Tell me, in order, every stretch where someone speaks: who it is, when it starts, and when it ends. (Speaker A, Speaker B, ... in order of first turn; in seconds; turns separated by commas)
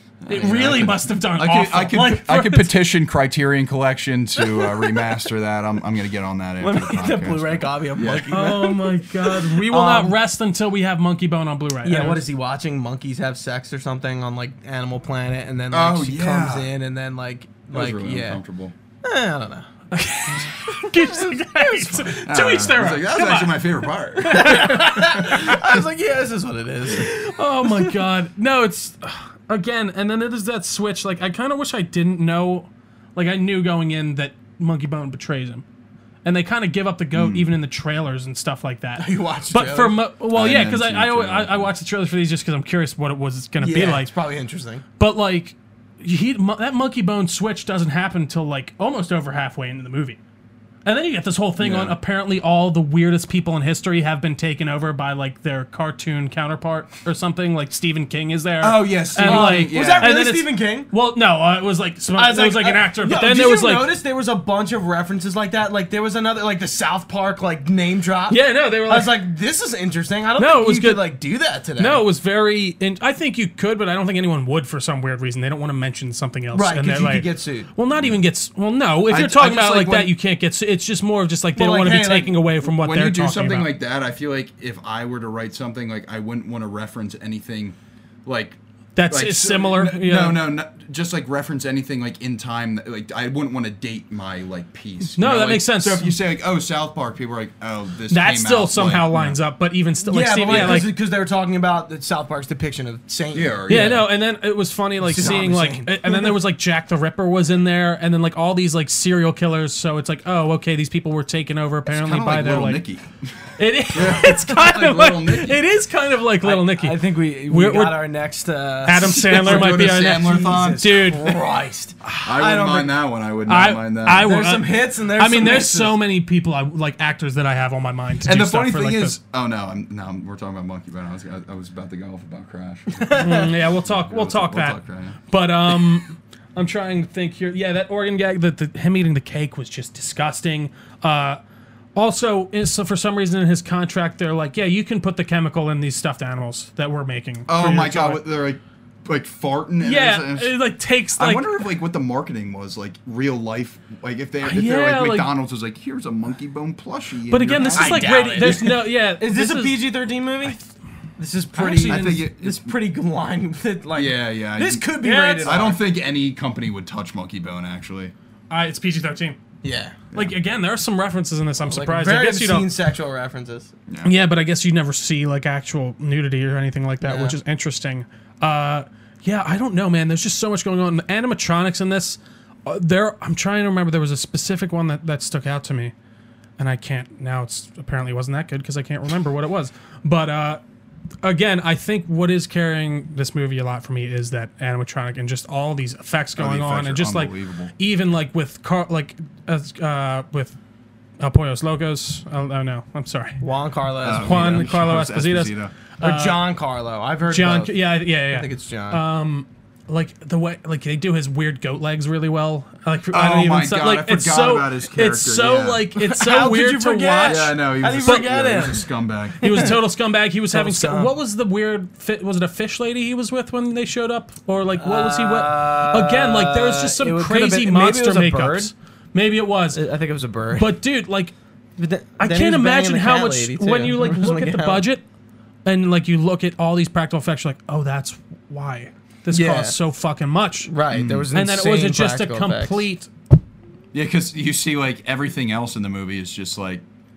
Speaker A: 0.2-8.4, Speaker B: 0.3-2.7, Speaker C: 4.4-5.0, Speaker C: 6.6-10.1, Speaker B: 8.3-12.2, Speaker C: 11.8-18.4, Speaker A: 15.7-16.7, Speaker A: 17.7-18.7, Speaker C: 19.0-19.7, Speaker B: 19.9-25.2, Speaker C: 20.6-22.0, Speaker A: 22.1-25.8, Speaker C: 24.2-27.9, Speaker B: 26.9-35.6, Speaker B: 36.2-44.1, Speaker A: 37.1-37.5, Speaker C: 39.0-40.0, Speaker A: 40.3-41.7, Speaker C: 43.6-44.8, Speaker B: 45.0-50.2, Speaker B: 50.8-63.9, Speaker A: 51.6-52.0, Speaker A: 58.6-60.1, Speaker C: 59.2-60.9, Speaker C: 62.1-72.0, Speaker B: 68.3-69.2, Speaker B: 70.4-71.1, Speaker B: 71.8-83.7, Speaker C: 76.5-77.7, Speaker A: 79.1-80.1, Speaker C: 81.5-82.4, Speaker A: 82.6-99.4, Speaker B: 89.0-90.4, Speaker B: 95.2-96.1, Speaker B: 98.1-100.9, Speaker C: 100.0-104.0, Speaker A: 100.5-100.8, Speaker A: 103.3-104.1, Speaker B: 103.7-112.8, Speaker C: 105.0-106.3, Speaker A: 105.2-105.4, Speaker A: 111.9-115.6, Speaker B: 113.6-118.0, Speaker C: 116.4-122.9, Speaker B: 118.8-121.4, Speaker A: 119.0-121.1, Speaker A: 122.2-124.4, Speaker B: 123.5-129.1, Speaker C: 124.2-126.0, Speaker A: 128.2-135.2, Speaker C: 133.0-133.4, Speaker B: 133.2-141.4, Speaker B: 141.9-148.2, Speaker A: 147.5-150.5, Speaker B: 149.8-151.5, Speaker A: 151.2-158.6, Speaker B: 154.4-155.3, Speaker B: 157.3-159.9, Speaker C: 157.7-160.6, Speaker C: 161.2-165.8, Speaker B: 161.5-162.2, Speaker A: 161.8-162.7, Speaker A: 163.9-164.9, Speaker B: 165.0-165.6, Speaker A: 165.4-168.1, Speaker B: 168.5-169.4, Speaker C: 169.6-170.0, Speaker B: 170.1-172.7, Speaker C: 171.6-173.7, Speaker A: 173.9-174.1, Speaker B: 174.0-185.9, Speaker C: 177.0-177.3, Speaker B: 186.6-190.6, Speaker B: 191.2-200.5, Speaker A: 196.3-197.7, Speaker B: 201.2-203.4, Speaker C: 203.4-204.7, Speaker A: 204.0-205.7, Speaker B: 204.1-206.4, Speaker C: 206.0-209.0, Speaker B: 207.3-218.3, Speaker A: 213.1-215.8, Speaker C: 216.0-218.9, Speaker A: 217.2-219.7, Speaker C: 219.4-219.7, Speaker B: 219.4-229.8, Speaker C: 220.5-221.1, Speaker C: 224.8-228.7, Speaker C: 229.7-230.7, Speaker B: 230.5-231.3, Speaker C: 231.8-234.8, Speaker B: 232.2-235.0, Speaker B: 235.6-240.7, Speaker C: 239.3-239.8, Speaker C: 240.6-242.8, Speaker A: 240.9-241.3, Speaker B: 241.3-243.1, Speaker A: 243.9-246.8